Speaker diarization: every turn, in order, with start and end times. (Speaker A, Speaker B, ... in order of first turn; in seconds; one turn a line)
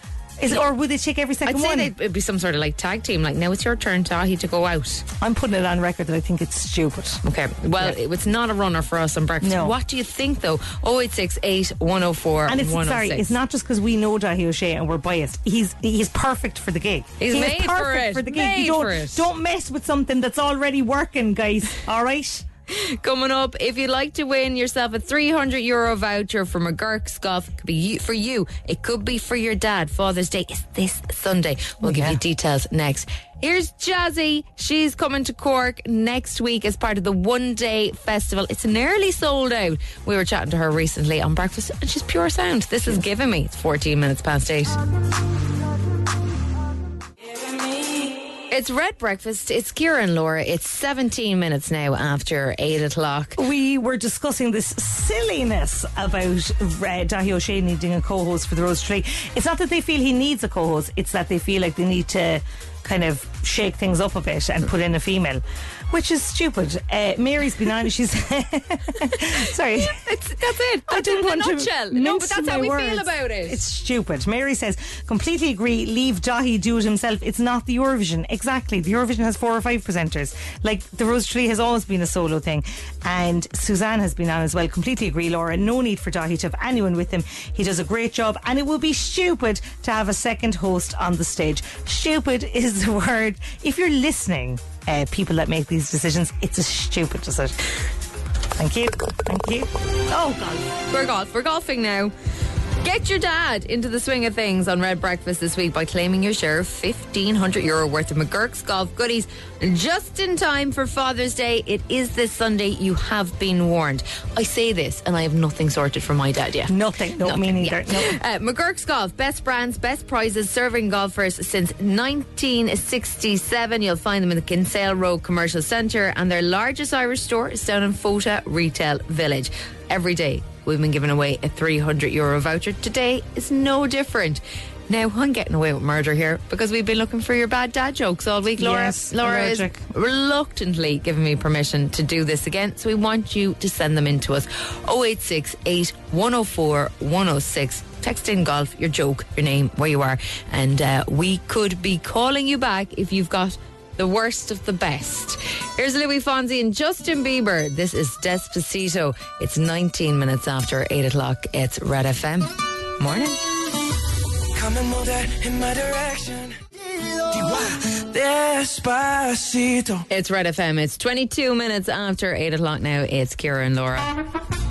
Speaker A: 0.4-1.9
Speaker B: 1.4-5.0
Speaker A: 5.2-7.2
Speaker B: 7.2-13.3
Speaker A: 9.4-9.8
Speaker A: 12.4-22.4
Speaker B: 17.2-19.2
Speaker B: 22.7-44.8
Speaker A: 31.8-32.2
Speaker B: 48.5-53.4
Speaker A: 53.4-70.0
Speaker B: 69.1-73.6
Speaker A: 70.9-97.6
Speaker A: 98.5-100.7
Speaker B: 100.8-102.1
Speaker B: 102.8-163.4
Speaker A: 116.7-118.2
Speaker A: 138.6-139.8
Speaker C: 164.5-166.6
Speaker C: 167.3-170.0
Speaker B: 170.1-174.1